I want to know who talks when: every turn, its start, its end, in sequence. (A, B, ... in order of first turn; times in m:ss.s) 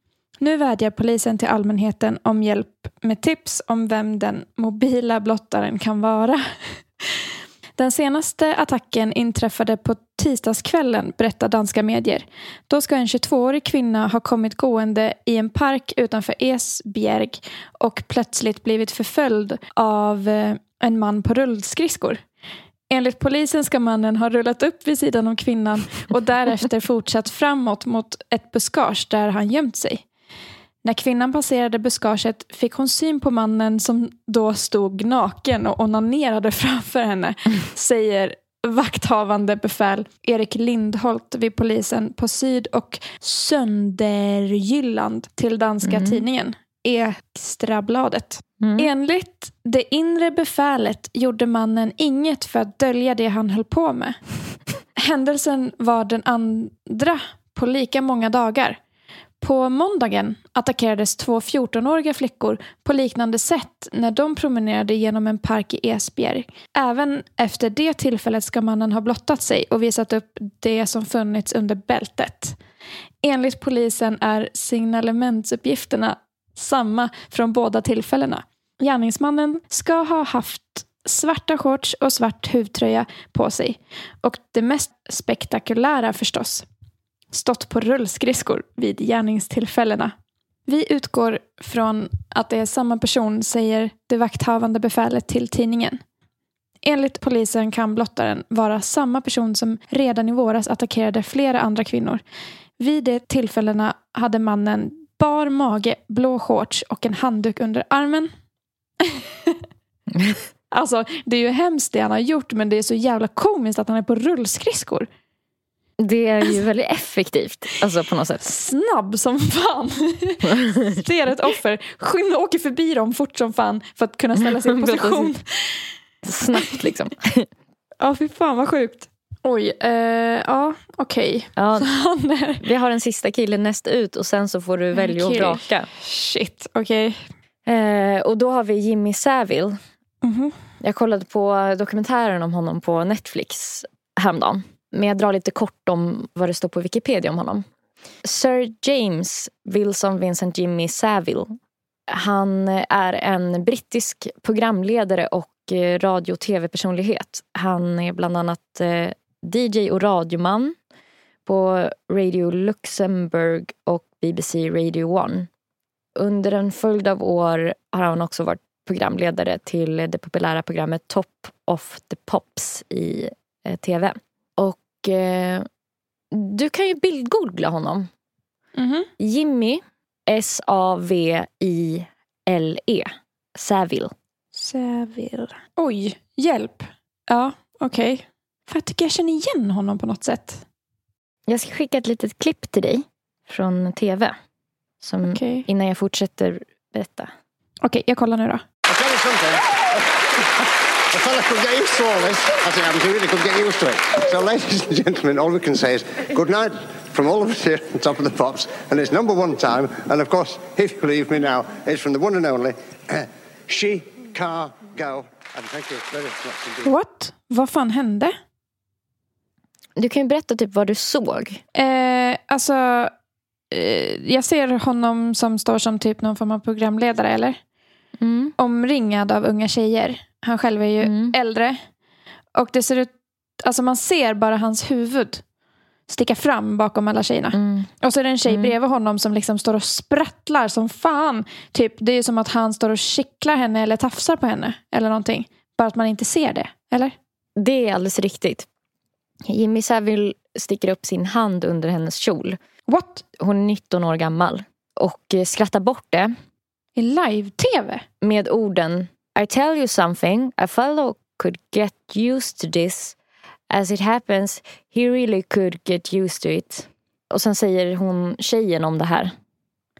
0:00.4-0:06.8 A
0:07.8-0:22.2 A
0:22.9-0:30.0 A
0:30.8-0:54.2 A
0:45.8-0:46.2 B
0:48.6-0:48.9 B
0:55.0-0:58.8 A
0:59.4-1:12.6 A
1:13.2-1:26.6 A
1:27.3-1:30.1 A
1:30.7-1:36.0 A
1:36.8-1:42.2 A
1:42.8-1:48.3 A
1:49.1-1:49.5 A
1:50.7-1:55.1 A
1:56.0-1:58.5 B
1:58.4-2:05.8 A
2:00.6-2:00.9 B
2:04.4-2:05.3 B
2:06.2-2:07.5 B
2:08.0-2:12.6 A
2:11.6-2:11.9 B
2:12.6-2:15.9 B
2:14.9-2:17.2 A
2:17.6-2:19.8 B
2:20.2-2:20.5 A
2:20.8-2:27.6 B
2:28.2-2:31.6 B
2:32.1-2:40.8 B
2:41.4-2:45.5 B
2:46.2-2:55.7 B
2:56.3-2:58.1 B
2:58.8-2:59.1 A
2:59.2-3:04.1 B
3:04.5-3:10.6 A
3:11.5-3:14.4 B
3:15.0-3:17.3 B
3:15.2-3:15.6 A
3:17.8-3:18.6 A
3:18.8-3:20.1 C
3:21.1-3:36.9 C
3:36.8-3:38.3 A
3:40.0-3:41.6 B
3:41.8-3:43.1 A
3:43.7-3:47.6 A
3:48.2-3:48.5 B
3:48.6-3:51.8 A
3:51.0-3:51.3 B
3:52.5-3:55.4 A
3:56.1-4:07.1 A
3:57.5-3:57.9 B
3:58.4-3:58.7 B
4:07.6-4:08.7 B
4:09.4-4:12.6 B
4:12.9-4:13.2 A
4:13.4-4:16.3 B
4:17.0-4:18.0 A
4:18.2-4:23.2 B
4:23.7-4:29.3 B